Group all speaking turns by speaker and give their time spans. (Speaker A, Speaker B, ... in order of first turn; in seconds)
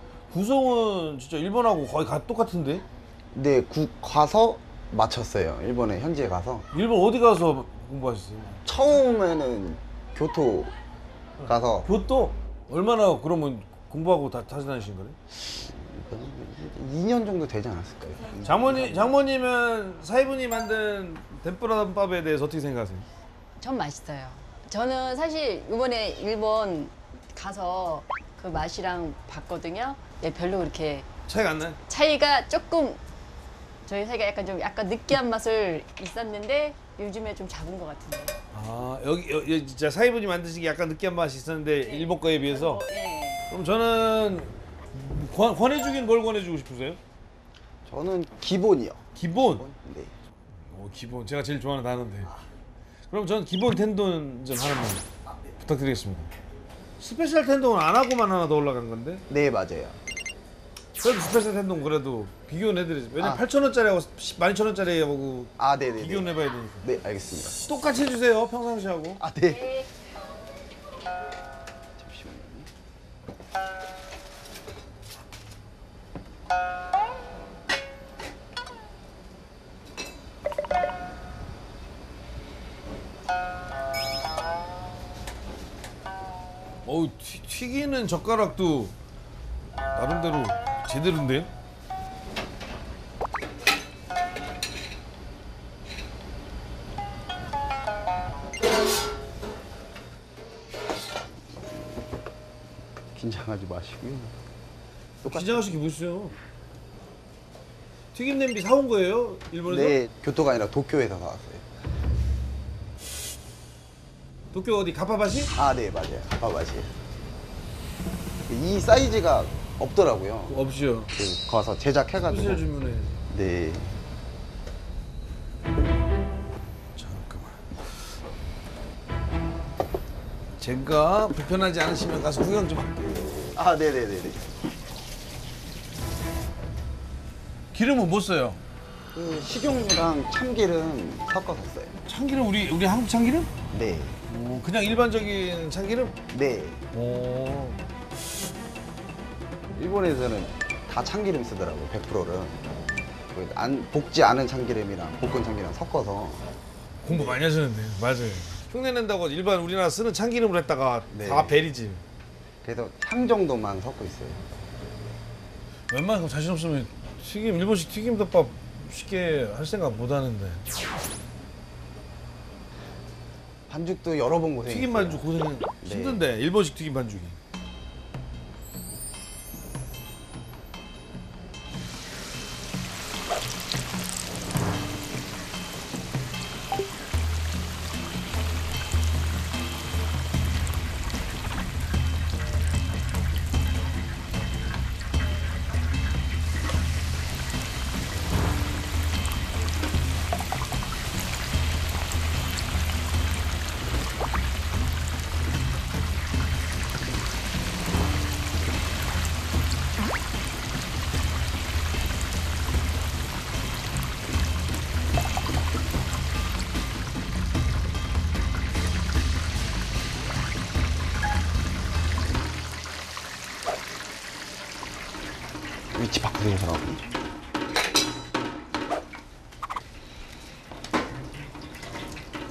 Speaker A: 0.3-2.9, 6.7-8.6, 11.4-15.2, 18.4-23.1, 31.3-31.8, 38.5-42.8, 43.5-47.0, 49.2-49.6, 50.7-52.3, 53.1-55.1, 55.6-56.3, 57.0-59.2, 61.0-66.8, 67.7-69.2, 86.8-88.9, 89.9-91.5, 105.2-106.4, 108.1-110.0, 114.5-115.5, 120.5-121.1, 122.3-123.2, 127.0-127.9, 130.6-133.5, 137.7-138.6, 142.1-143.5, 144.3-146.2, 146.9-147.8, 157.0-162.0, 165.9-170.6, 174.7-177.4
Speaker B: 3.3-6.7, 8.7-10.7, 11.4-11.9, 15.4-19.2, 47.9-50.1, 55.3-55.5, 59.3-60.0, 63.2-63.4, 65.6-67.6, 69.2-69.7, 72.0-72.7, 101.5-101.8, 103.1-104.4, 105.2-105.7, 109.7-111.7, 115.5-116.9, 118.5-120.6, 121.1-122.6, 123.3-124.0, 133.5-134.5, 139.1-142.0, 143.7-144.2, 146.3-146.8, 149.7-152.7, 153.3-156.5, 157.1-157.4, 161.1-161.6, 162.6-164.4, 173.7-175.2, 175.8-176.2, 225.9-227.0
Speaker C: 23.6-31.1, 31.9-33.0, 33.9-38.4, 41.8-43.4, 69.5-69.9